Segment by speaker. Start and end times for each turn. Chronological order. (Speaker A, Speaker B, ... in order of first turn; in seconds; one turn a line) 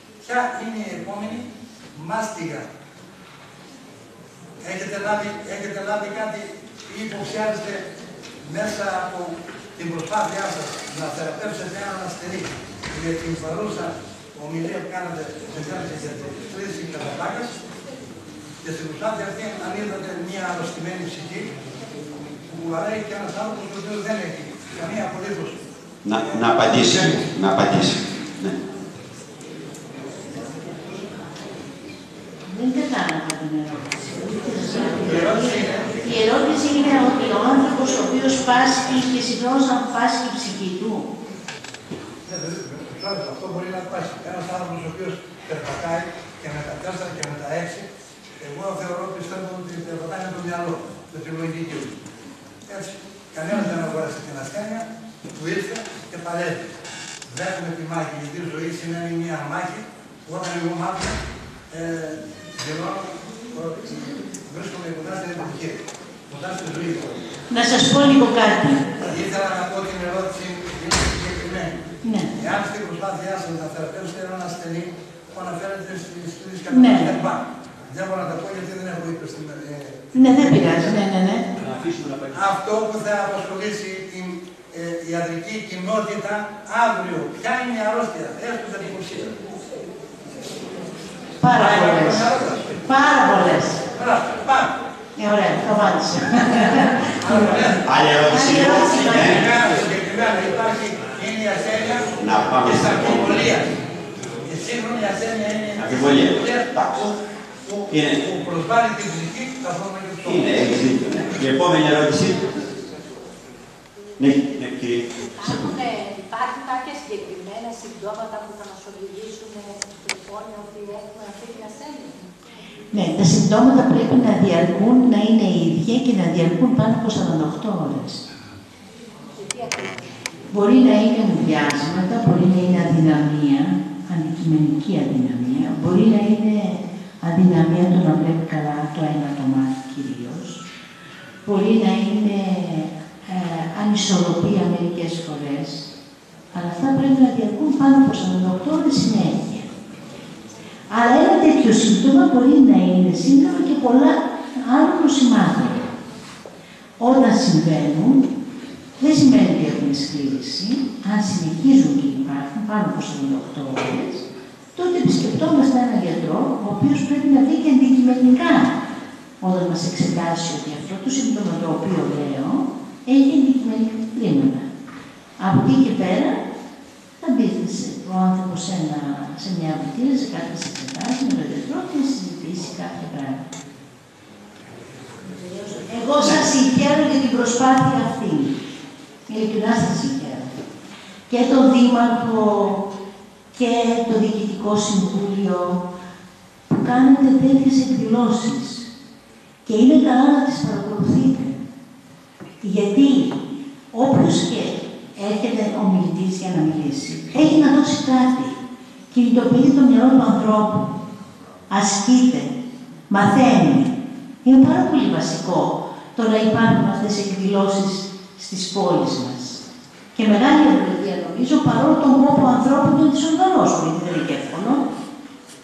Speaker A: 0.2-2.7
Speaker A: 4.6-7.8
Speaker A: 8.4-17.6
Speaker A: 18.6-21.6
Speaker A: 22.5-25.6
Speaker B: 26.0-28.6
Speaker C: 32.5-41.1
Speaker A: 35.0-36.0
Speaker A: 42.3-47.9
Speaker A: 48.4-52.0
Speaker A: 52.7-56.8
Speaker A: 57.3-61.2
Speaker A: 61.7-67.1
Speaker C: 67.5-69.0
Speaker A: 69.0-71.8
Speaker C: 72.0-72.4
Speaker A: 72.3-81.0
Speaker C: 76.7-77.2
Speaker C: 80.1-81.5
Speaker B: 81.6-82.3
Speaker A: 82.3-89.6
Speaker C: 91.4-92.3
Speaker A: 91.4-92.8
Speaker C: 92.8-93.8
Speaker A: 93.9-94.8
Speaker C: 95.2-97.8
Speaker A: 97.1-103.8
Speaker B: 97.8-99.5
Speaker C: 98.3-99.4
Speaker B: 102.2-103.5
Speaker A: 104.4-107.1
Speaker B: 105.8-107.1
Speaker A: 107.7-110.5
Speaker B: 107.9-108.2
Speaker B: 110.2-112.5
Speaker B: 114.2-115.8
Speaker D: 115.1-122.2
Speaker C: 122.9-128.2
Speaker D: 129.3-130.1
Speaker C: 130.5-140.6
Speaker C: 141.5-145.9
Speaker C: 146.5-149.7
Speaker C: 150.9-156.0
Speaker C: 157.0-158.3
Speaker C: 159.0-164.2
Speaker C: 164.8-168.8
Speaker C: 169.4-174.7
Speaker C: 175.4-176.4
Speaker C: 177.2-183.5
Speaker C: 185.4-188.6
Speaker C: 189.3-190.5
Speaker C: 191.3-192.9
Speaker C: 193.5-195.8
Speaker C: 196.7-198.9
Speaker C: 199.7-201.6
Speaker C: 202.6-208.6
Speaker C: 209.1-211.0
Speaker C: 211.7-212.5
Speaker C: 213.1-219.6
Speaker C: 220.2-224.8